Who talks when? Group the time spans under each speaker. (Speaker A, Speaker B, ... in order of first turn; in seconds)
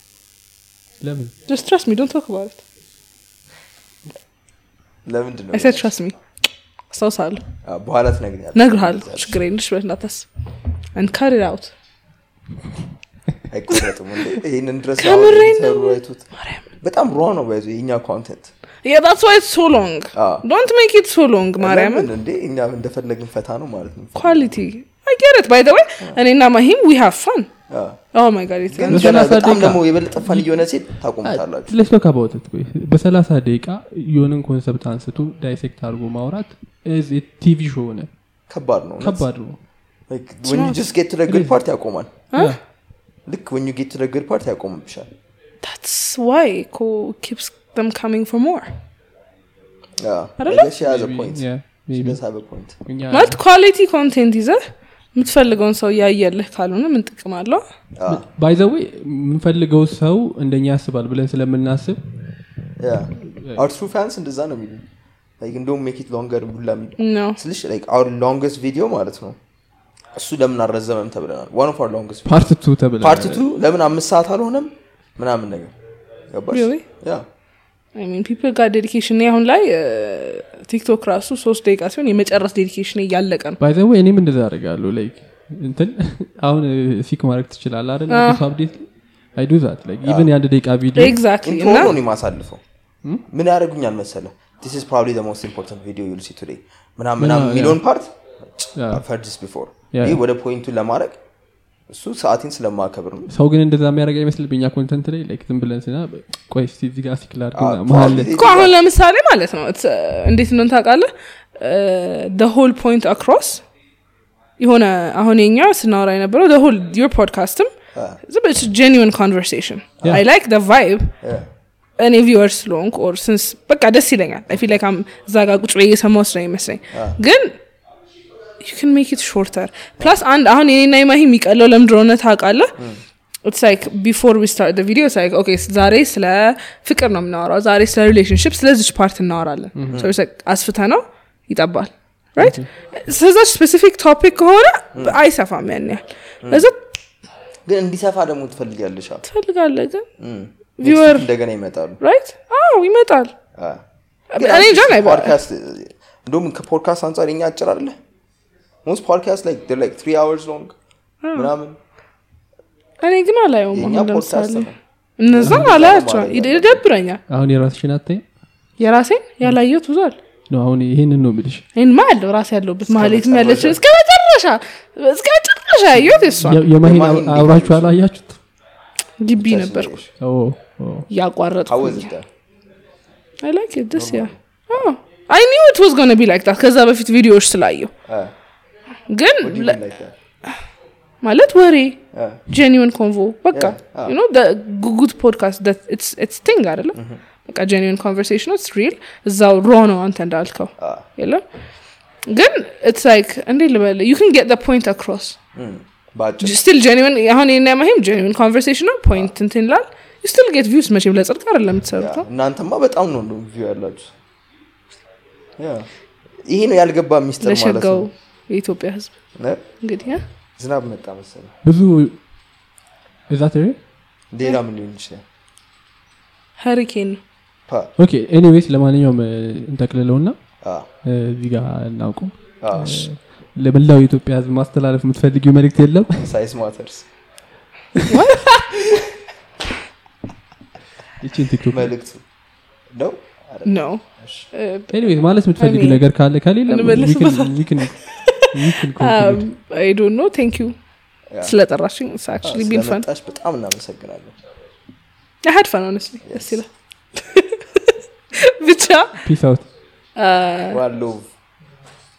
Speaker A: 1.0-1.3, 28.9-30.5, 31.2-38.1, 39.0-39.6, 41.3-41.5, 50.8-52.2, 52.8-53.4, 58.0-62.0, 63.3-63.6, 72.2-73.4, 83.6-91.2, 97.2-97.8, 98.7-99.0, 99.9-100.2, 103.3-108.3, 139.8-140.0, 142.4-142.7, 165.4-165.7, 167.3-168.2, 170.5-171.6, 176.4-178.4, 180.2-181.1, 221.6-222.2, 223.3-223.8, 228.0-230.4, 231.0-236.3, 237.9-238.4, 241.2-241.9, 244.9-249.4, 259.2-259.7
Speaker B: 1.5-2.6, 5.5-6.1, 6.9-7.4, 8.5-10.3, 10.9-11.7, 15.0-16.6, 18.8-22.1, 24.1-27.5, 28.1-29.3, 40.5-40.9, 45.6-48.7, 50.4-50.7, 53.1-57.6, 67.0-67.4, 76.5-76.8, 77.9-83.6, 88.1-88.4, 91.0-91.9, 108.2-113.6, 114.6-117.7, 118.2-121.2, 122.0-127.6, 128.6-132.8, 133.4-146.8, 149.2-150.1, 150.8-151.3, 152.0-153.3, 154.3-155.3, 161.2-161.5, 163.0-167.2, 168.8-170.2, 171.8-176.7, 179.2-180.0, 181.1-182.1, 183.4-187.9, 189.1-189.8, 191.2-201.4, 202.3-205.4, 206.4-212.2, 217.4-219.1, 219.8-220.2, 226.6-227.2, 238.1-238.6, 243.6-246.0, 246.7-250.7, 251.4-253.0, 255.4-259.2, 260.1-260.8
Speaker C: 5.0-5.9, 7.6-9.4, 13.5-16.2, 16.8-18.5, 20.1-20.4, 21.6-24.5, 27.7-28.0, 28.7-31.7, 38.5-39.2, 40.1-42.2, 43.2-45.1, 50.0-52.7, 58.0-58.2, 62.8-64.8, 65.4-69.4, 70.1-75.7, 76.3-77.2, 90.0-90.3, 91.4-92.6, 93.3-101.2, 101.9-103.3, 107.5-108.8, 117.9-118.2, 121.2-121.5, 126.9-127.2, 147.7-149.2, 150.2-152.0, 153.5-153.8, 154.3-158.0, 158.8-160.7, 161.3-161.8, 163.7-164.7, 165.2-166.8, 172.8-173.8, 176.8-177.9, 179.3-180.1, 181.7-182.2, 183.9-184.9, 188.1-188.3, 189.4-190.1, 192.1-192.4, 193.5-194.1, 196.9-197.2, 200.8-201.0, 205.5-206.6, 211.9-214.1, 215.6-215.9, 216.4-218.1, 219.3-219.6, 220.6-221.5, 224.3-225.2, 230.6-230.9, 232.6-233.1, 236.2-237.1, 241.7-242.2, 242.9-244.5, 252.4-254.3, 256.2-256.6, 260.7-261.3